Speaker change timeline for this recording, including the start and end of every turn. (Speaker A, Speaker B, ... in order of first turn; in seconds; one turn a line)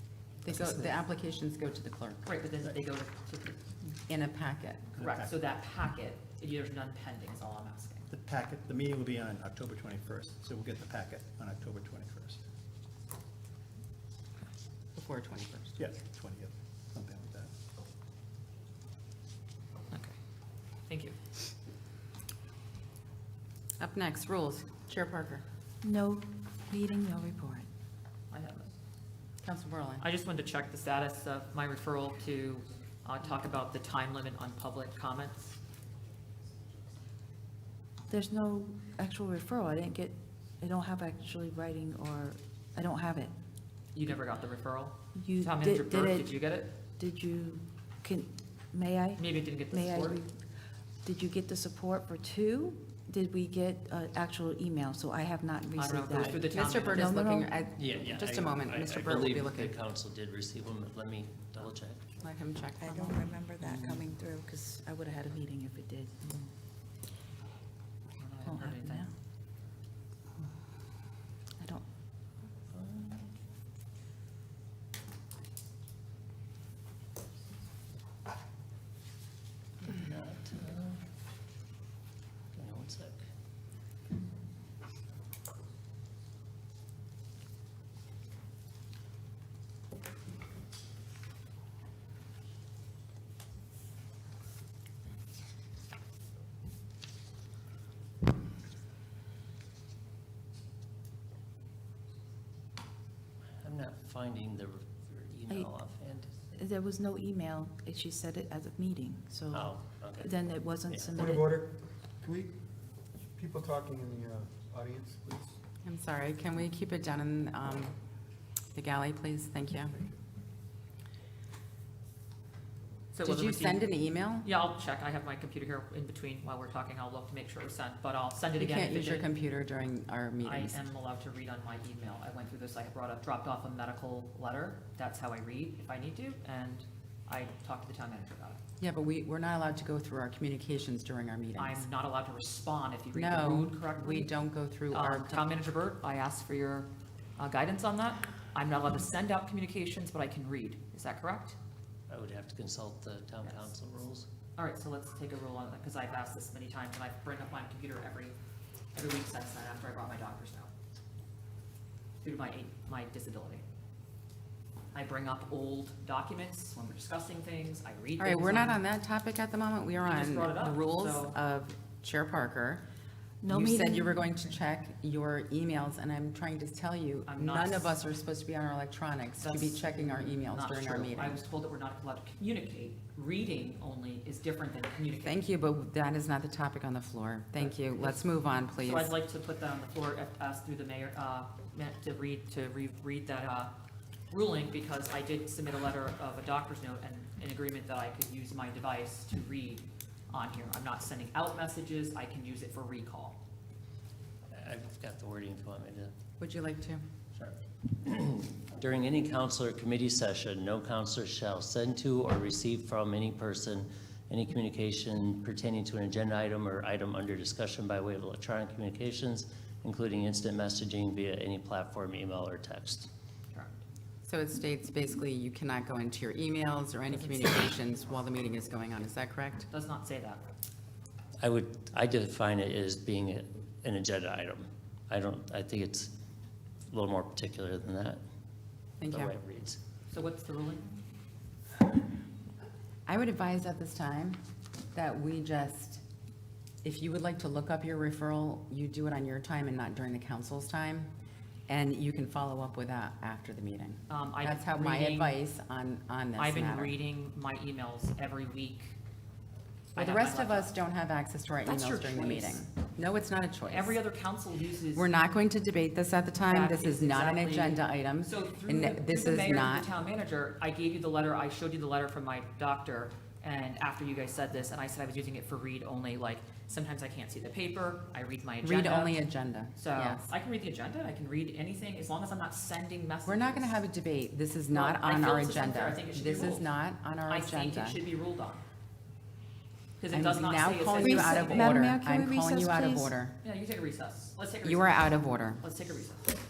Speaker A: 0.4-2.3
Speaker B: 2.2-3.6
Speaker A: 4.1-4.9
Speaker C: 5.0-5.3
Speaker B: 5.0-8.1
Speaker C: 8.1-12.4
Speaker A: 14.9-15.8
Speaker C: 15.8-17.5
Speaker B: 20.9-21.2
Speaker A: 23.8-25.4
Speaker D: 25.8-27.7
Speaker B: 28.3-28.7
Speaker A: 29.4-30.0
Speaker B: 30.0-35.6
Speaker D: 38.1-43.3
Speaker B: 43.9-46.7
Speaker D: 45.1-46.3
Speaker D: 47.0-50.3
Speaker B: 49.2-50.2
Speaker D: 51.0-57.5
Speaker B: 55.8-57.2
Speaker A: 55.9-59.7
Speaker E: 57.8-62.0
Speaker A: 62.2-63.4
Speaker D: 62.8-66.2
Speaker E: 63.6-64.1
Speaker B: 68.2-69.1
Speaker D: 68.4-69.1
Speaker D: 71.6-71.8
Speaker E: 72.7-73.3
Speaker E: 79.8-81.0
Speaker E: 82.5-83.2
Speaker E: 103.6-106.4
Speaker D: 106.5-111.5
Speaker E: 109.5-111.3
Speaker F: 111.3-111.7
Speaker F: 112.2-112.5
Speaker F: 113.4-115.5
Speaker A: 115.8-118.0
Speaker A: 118.7-120.0
Speaker B: 123.1-123.8
Speaker A: 123.2-124.5
Speaker B: 124.4-129.3
Speaker A: 128.6-130.8
Speaker B: 130.4-138.6
Speaker A: 138.8-141.8
Speaker B: 141.6-144.3
Speaker A: 143.1-145.4
Speaker B: 144.9-151.6
Speaker E: 152.1-154.3
Speaker B: 154.6-158.3
Speaker B: 158.9-160.7
Speaker B: 162.2-163.6
Speaker B: 164.9-168.8
Speaker A: 168.2-172.8
Speaker B: 170.0-171.3
Speaker D: 173.4-174.1
Speaker A: 173.4-181.4
Speaker B: 177.3-177.9
Speaker B: 179.4-185.4
Speaker A: 185.2-189.1
Speaker B: 187.6-188.2
Speaker B: 188.8-193.7
Speaker B: 194.3-203.4
Speaker E: 204.5-206.1
Speaker A: 206.4-207.0
Speaker E: 207.3-223.1
Speaker B: 223.5-223.8
Speaker A: 224.2-229.7
Speaker B: 229.7-230.4
Speaker E: 231.4-236.1
Speaker E: 236.9-238.2
Speaker A: 239.0-239.3
Speaker E: 239.1-239.8
Speaker B: 240.1-241.0
Speaker A: 243.1-244.4
Speaker A: 244.9-246.0
Speaker A: 246.8-251.1
Speaker A: 251.7-256.9
Speaker B: 254.1-255.4
Speaker B: 256.4-258.9
Speaker B: 259.9-260.7
Speaker A: 259.9-264.0
Speaker B: 261.6-262.7
Speaker B: 263.7-265.1
Speaker A: 264.9-269.9
Speaker B: 266.4-279.2
Speaker A: 278.6-280.3
Speaker B: 279.8-283.8
Speaker A: 283.2-288.0
Speaker B: 284.7-286.7
Speaker B: 287.3-288.6
Speaker B: 290.0-291.7
Speaker A: 290.1-293.4
Speaker D: 291.0-293.1
Speaker B: 293.4-295.1
Speaker A: 294.6-295.6
Speaker B: 295.6-296.2